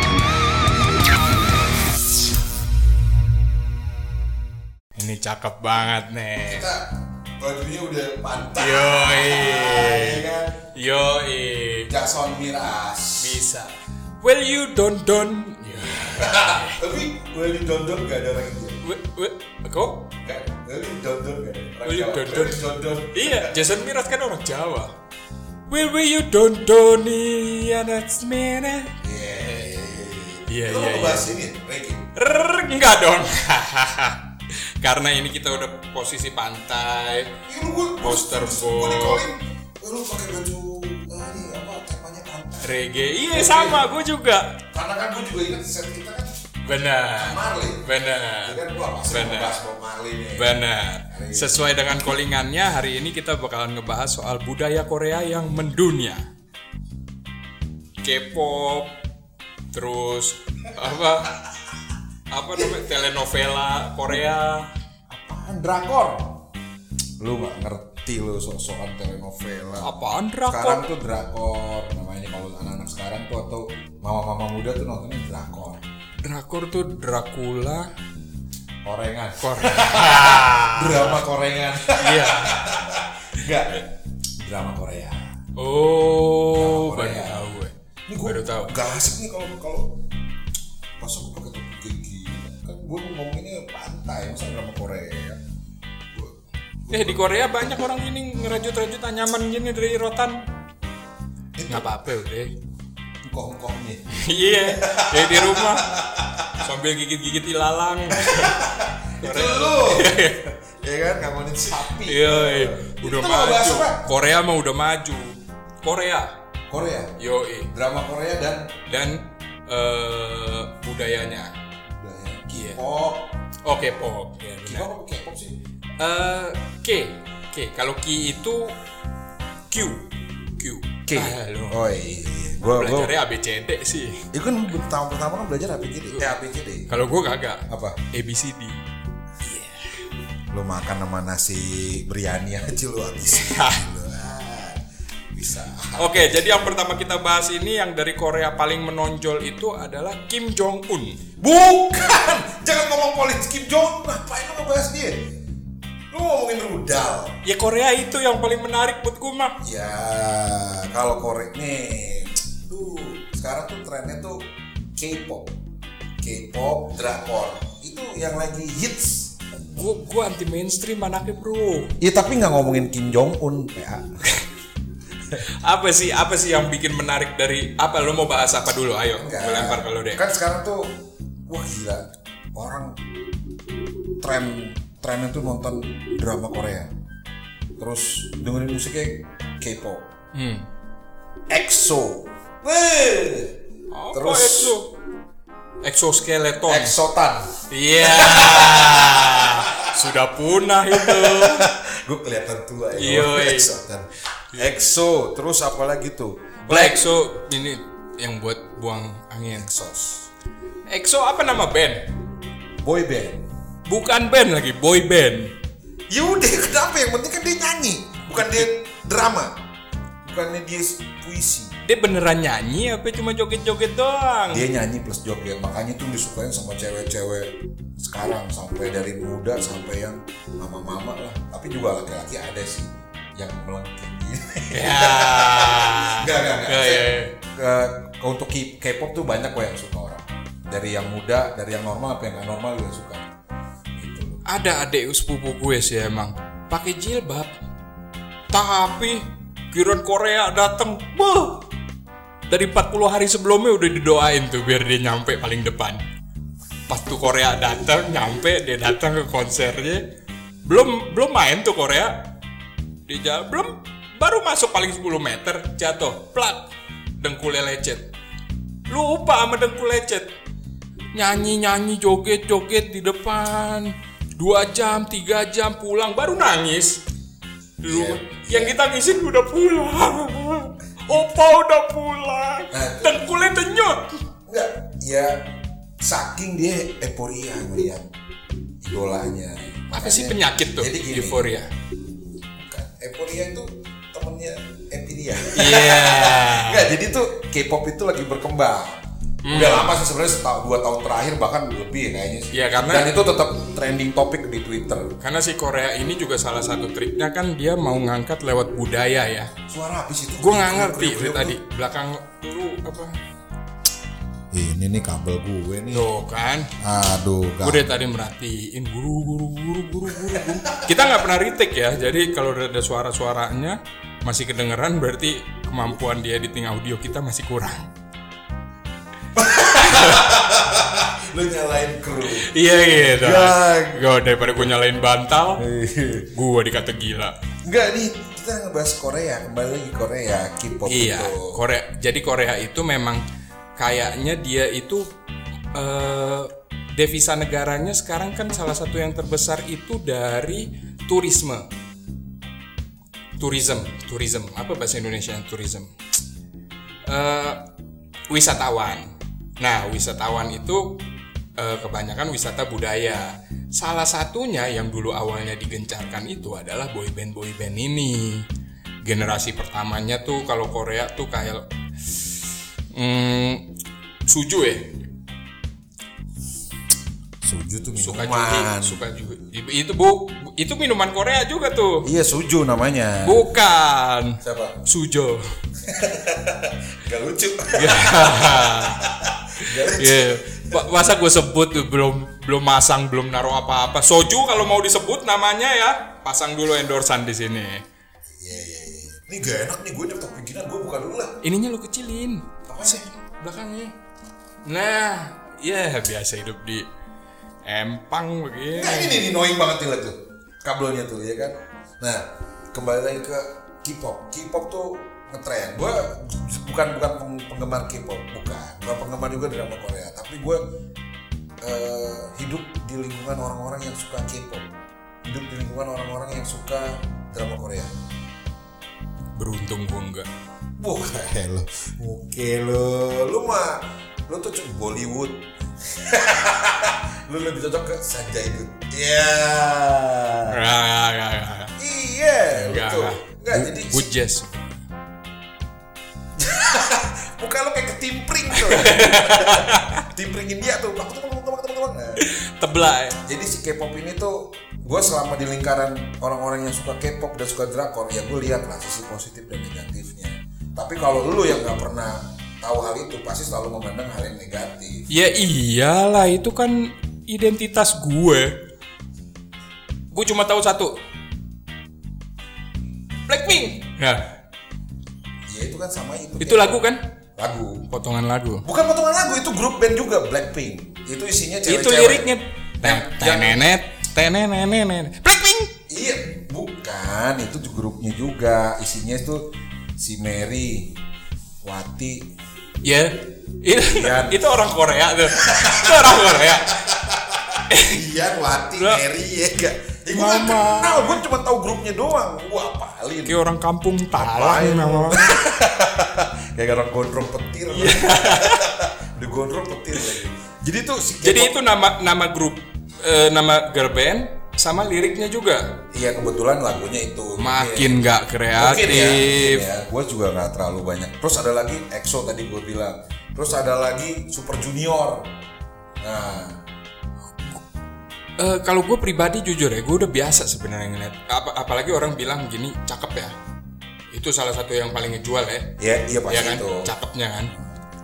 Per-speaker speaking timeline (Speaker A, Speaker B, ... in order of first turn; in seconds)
Speaker A: 5.0-6.7, 8.6-10.2, 10.7-11.9, 13.2-16.8, 18.8-20.1, 21.8-24.9, 25.7-29.0, 30.5-31.3, 32.1-34.2, 34.8-37.4, 38.0-39.2, 42.6-44.6, 46.6-48.6, 49.1-49.6, 50.3-56.2, 58.0-58.9, 59.7-61.3, 62.3-64.7, 69.8-70.8, 76.2-77.9, 79.4-81.2, 81.9-82.8, 85.5-88.7, 96.9-100.4, 101.7-102.5, 104.1-105.9, 106.6-108.6, 109.2-110.4, 112.0-116.3, 117.2-117.7, 118.9-121.5, 122.5-122.8, 123.6-124.9, 126.0-128.8, 129.7-131.8, 132.7-134.3, 136.9-138.8, 139.4-140.0, 143.3-143.8, 146.0-151.2, 157.4-159.6, 169.7-171.9, 175.6-180.2, 190.3-190.7, 193.9-194.9, 195.8-196.9, 197.7-201.7, 202.9-203.7, 206.7-209.7, 210.9-212.1, 213.8-215.5, 218.3-218.7, 221.8-224.7, 234.7-237.3, 244.4-247.5, 248.5-251.6, 252.5-256.0, 256.9-260.0, 260.6-262.1, 263.1-266.7, 267.2-268.0, 268.9-270.3, 271.1-277.0, 277.8-284.2, 289.9-291.7, 295.5-296.9, 299.4-300.0, 302.5-303.2, 305.2-309.5, 310.4-313.1, 315.9-316.7, 317.6-327.9, 329.8-330.3, 332.3-335.6, 336.3-337.3, 340.8-343.2, 343.8-345.1, 345.7-351.7, 353.4-355.9, 357.1-357.6, 358.3-361.0, 361.6-368.4, 369.0-371.6, 372.9-373.6, 374.3-375.0, 377.9-382.1, 383.2-385.4, 387.7-389.0, 389.6-397.8, 401.4-403.9, 404.6-406.9, 407.6-409.2, 429.4-430.3, 440.5-441.7, 442.5-444.8, 448.5-450.1, 452.2-453.2, 465.1-468.6, 470.1-470.9, 473.3-474.3, 476.4-477.0, 477.9-478.6, 481.6-485.7, 492.8-496.7, 497.7-498.0, 500.1-501.2, 503.2-505.2, 507.7-508.6, 511.2-515.8, 517.4-519.6, 528.4-533.3, 534.1-535.7, 536.3-537.5
Speaker B: 6.5-10.6, 11.9-13.4, 15.7-18.8, 20.2-23.6, 29.0-32.1, 37.4-42.7, 43.3-43.8, 44.7-46.3, 47.1-47.9, 48.4-51.6, 65.1-66.4, 67.2-69.9, 70.5-75.8, 78.8-85.3, 86.5-87.5, 88.1-90.0, 91.0-95.4, 96.1-97.3, 101.5-101.9, 103.2-104.0, 104.6-106.6, 108.1-114.1, 116.7-117.1, 117.7-118.8, 121.9-123.3, 124.6-125.6, 131.1-133.1, 134.3-136.9, 137.7-138.0, 140.5-144.8, 145.3-146.6, 151.4-155.3, 156.1-157.4, 159.6-165.5, 166.2-169.6, 172.0-174.2, 179.2-183.0, 184.2-186.9, 187.8-190.1, 191.5-193.5, 194.1-194.8, 196.7-200.0, 200.9-207.0, 209.5-210.3, 212.8-213.4, 216.1-219.5, 220.2-221.7, 224.5-243.2, 243.9-244.4, 277.9-278.8, 282.7-283.3, 284.4-285.4, 286.0-288.1, 288.8-291.5, 292.5-305.1, 309.7-311.6, 314.5-316.1, 316.8-317.9, 320.1-321.0, 329.3-334.7, 335.6-336.3, 337.6-341.6, 377.4-379.0, 382.0-383.4, 384.4-384.8, 385.8-390.9, 398.4-401.4, 402.7-403.1, 408.7-420.6, 421.6-424.7, 425.2-428.0, 430.8-440.6, 441.8-444.1, 446.4-452.3, 453.2-465.1, 475.5-476.8, 477.4-477.9, 478.6-483.6, 485.9-491.0, 491.6-492.3, 493.8-494.4, 495.3-503.4, 504.1-511.6, 515.9-518.0, 518.5-525.3, 526.0-526.6, 535.8-536.9